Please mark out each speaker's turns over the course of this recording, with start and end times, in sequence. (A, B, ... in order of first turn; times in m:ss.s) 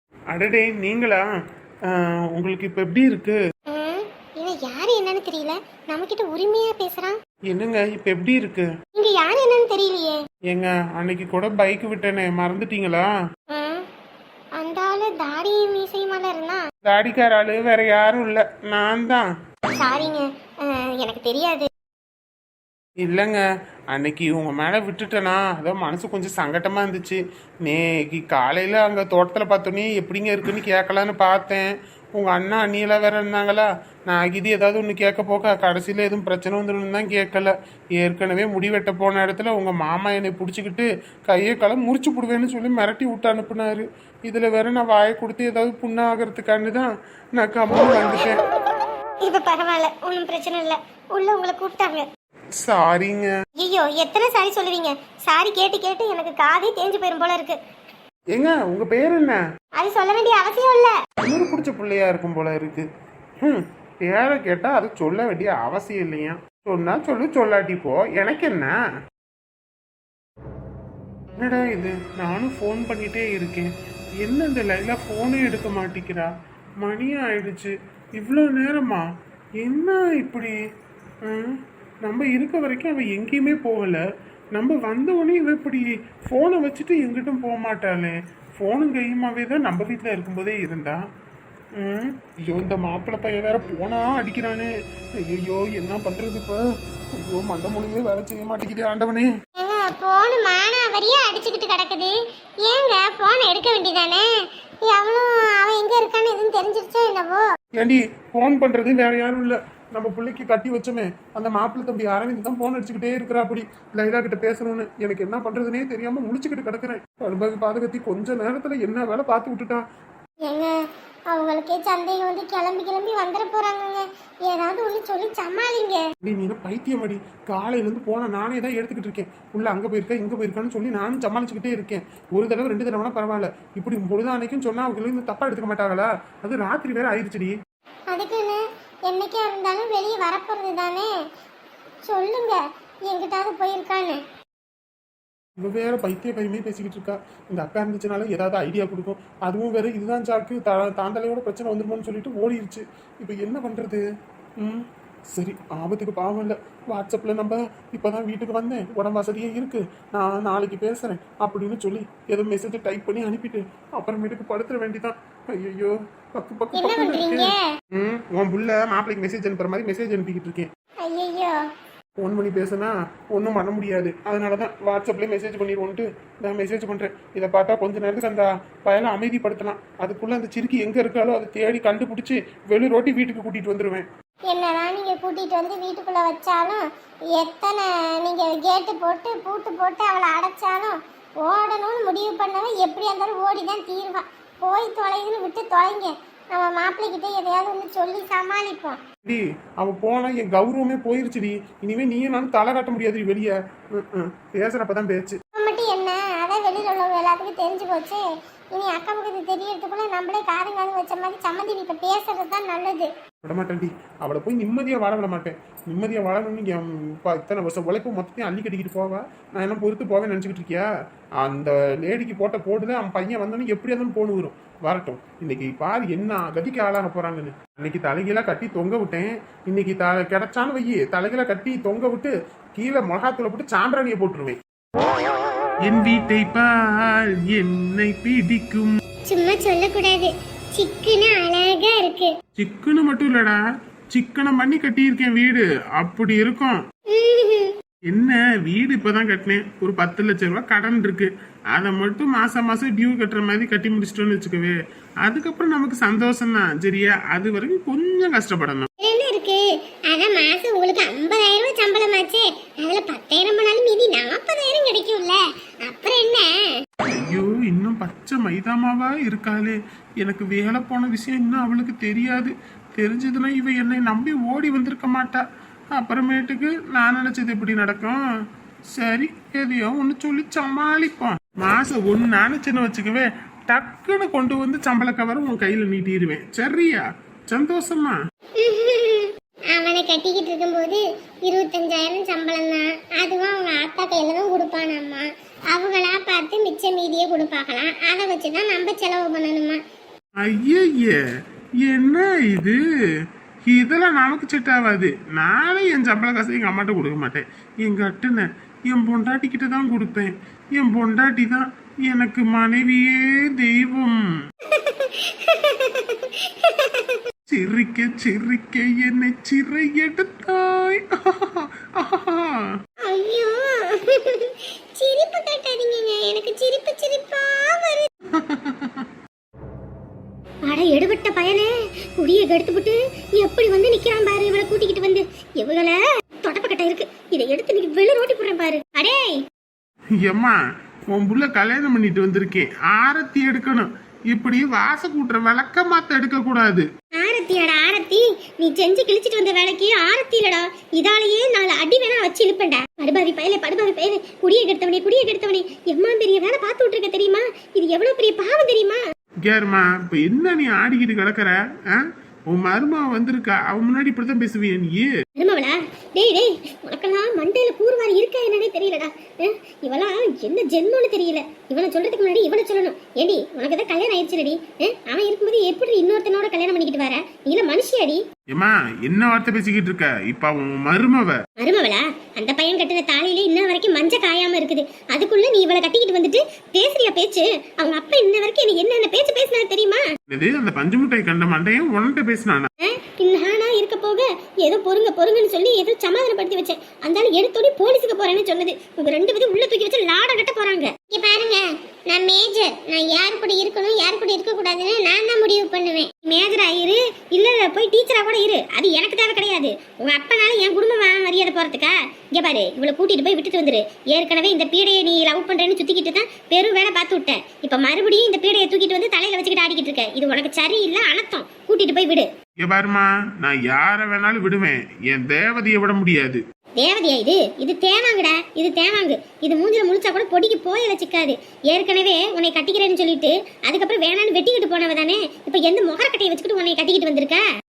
0:00.3-0:01.2 A
0:01.9-0:03.4 A
0:03.7-0:07.2 B
0:07.5-0:08.7 A
0:09.0-0:10.2 B
0:10.5-0:13.1 A
0:13.5-0:13.8 B
0:14.6-0:16.6 B
0:16.8-0:19.2 A
0:19.8-0:21.7 B
0:23.0-0:48.4 A
0:49.2-0:52.0 B
0:52.6-0:53.3 A
0:53.6-0:57.6 B
0:58.3-0:59.4 A
0:59.8-1:00.9 B
1:01.2-1:02.8 A
1:03.4-1:08.8 A
1:11.4-1:13.7 A
1:14.2-1:16.3 A
1:16.8-1:19.0 A
1:19.6-1:20.6 A
1:21.2-1:24.0 A
1:24.6-1:31.0 A
1:31.8-1:34.7 A
1:35.3-1:36.6 A
1:37.2-1:39.3 A
1:39.6-1:44.3 B
1:44.9-1:47.4 B
1:47.8-1:59.8 A
2:01.3-2:06.0 B
2:06.2-2:17.5 A
2:18.1-2:21.1 B
2:22.1-2:24.2 B
2:25.6-2:34.0 A
2:34.6-2:50.7 A
2:46.8-2:47.6 B
2:51.0-2:51.6 B
2:52.2-3:04.1 A
3:04.5-3:06.8 B
3:07.4-3:19.0 B
3:19.2-3:25.4 A
3:25.6-3:33.1 B
3:33.4-3:40.9 A
3:41.4-3:54.6 A
3:55.8-3:59.0 A
3:59.3-4:02.3 B
4:02.6-4:03.6 A
4:04.1-4:06.8 A
4:07.1-4:07.8 B
4:08.1-4:18.9 A
4:19.0-4:26.5 B
4:27.1-4:38.2 A
4:38.9-4:48.2 A
4:48.6-4:59.8 B
5:00.4-5:01.2 A
5:01.8-5:02.8 A
5:03.7-5:14.2 A
5:14.7-5:17.2 B
5:17.5-5:22.7 A
5:23.0-5:28.1 B
5:28.3-5:29.1 A
5:30.7-5:39.4 B
5:40.2-5:40.6 A
5:41.1-5:46.9 A
5:47.2-5:59.0 B
5:59.4-6:05.1 A
6:05.4-6:18.2 B
6:18.5-6:21.4 A
6:21.6-6:30.0 B
6:30.3-6:32.7 A
6:32.9-7:02.3 B
7:02.6-7:06.4 A
7:06.8-7:17.4 B